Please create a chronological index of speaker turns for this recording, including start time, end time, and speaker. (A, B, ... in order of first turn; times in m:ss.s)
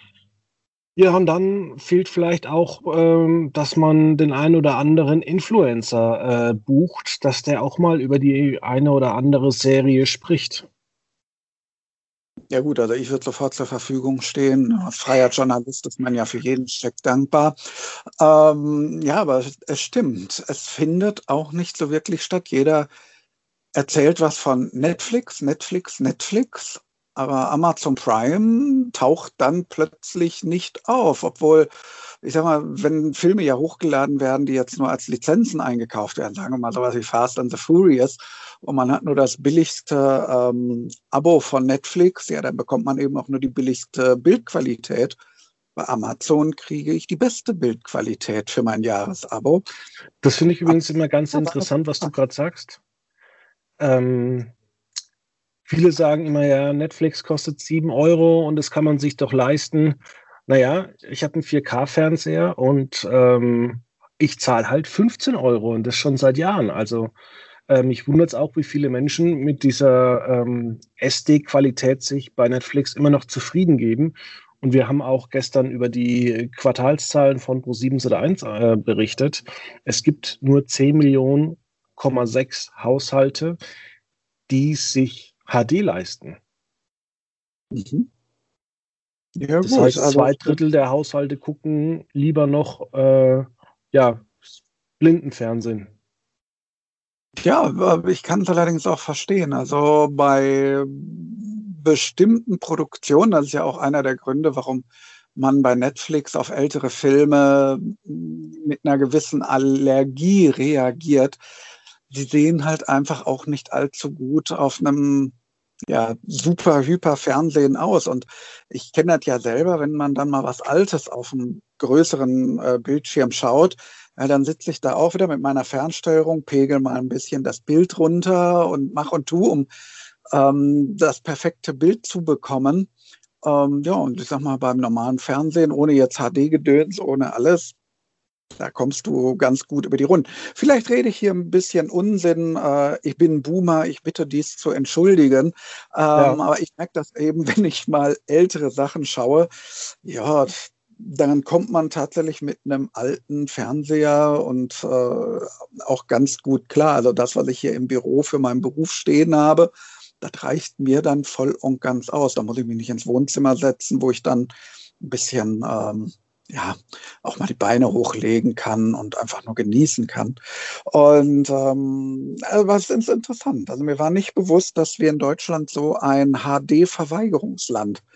0:01.0-0:10.7 A
0:12.5-0:22.9 B
0:23.8-0:31.7 B
0:32.2-0:45.2 B
0:45.8-0:49.6 B
0:50.2-0:52.8 A
0:51.3-0:52.1 B
0:53.8-0:54.5 A
0:55.7-1:07.1 A
1:07.7-1:23.6 A
1:24.5-1:26.4 A
1:27.7-1:28.1 B
1:29.4-1:30.6 B
1:29.6-1:34.3 A
1:35.0-1:35.9 A
1:37.4-1:44.8 B
1:45.4-1:51.4 B
1:52.1-1:55.3 B
1:55.9-2:09.7 B
2:10.3-2:12.9 B
2:13.4-2:17.8 B
2:18.6-2:50.4 B
2:26.2-2:26.4 A
2:50.9-2:58.0 B